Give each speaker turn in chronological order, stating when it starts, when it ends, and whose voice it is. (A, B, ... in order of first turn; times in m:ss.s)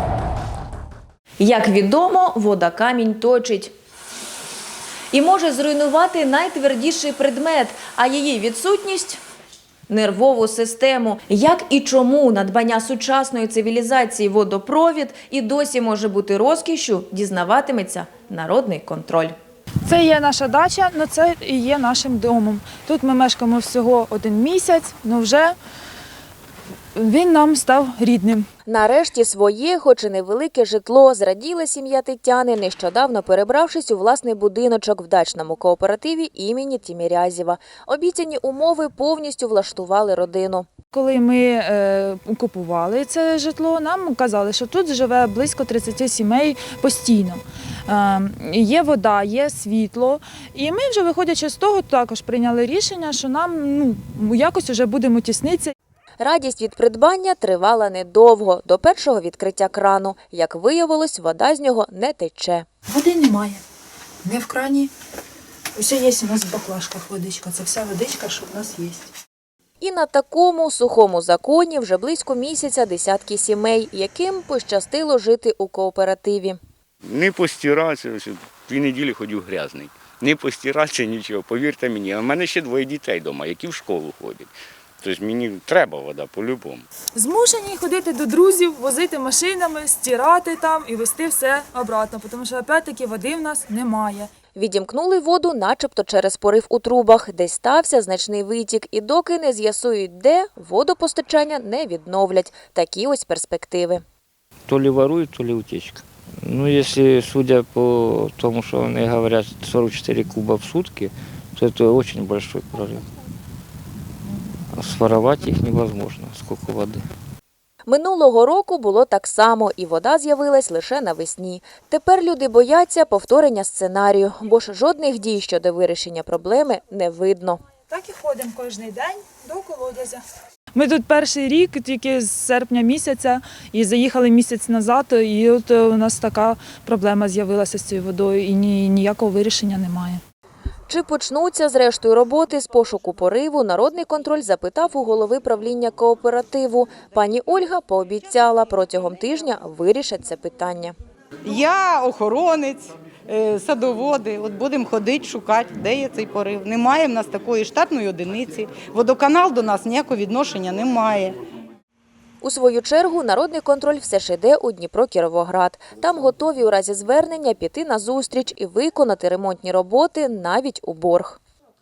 0:01.4-0:03.7 A
0:05.1-0:09.2 A
0:09.9-0:19.3 A
0:19.9-0:25.6 B
0:27.0-0:28.5 B
0:28.7-0:40.7 A
0:40.9-0:55.7 B
0:56.2-1:02.7 A
1:02.9-1:03.6 B
1:04.2-1:04.9 B
1:05.8-1:09.1 B
1:09.8-1:16.6 A
1:17.0-1:24.5 C
1:25.0-1:26.9 C
1:27.2-1:34.3 B
1:34.6-1:44.0 A
1:44.7-1:53.0 D
1:54.7-1:57.0 D
1:57.9-2:07.6 A
2:07.9-2:10.2 B
2:10.7-2:20.2 B
2:20.9-2:31.0 A
2:31.5-2:41.4 E
2:42.4-2:51.4 A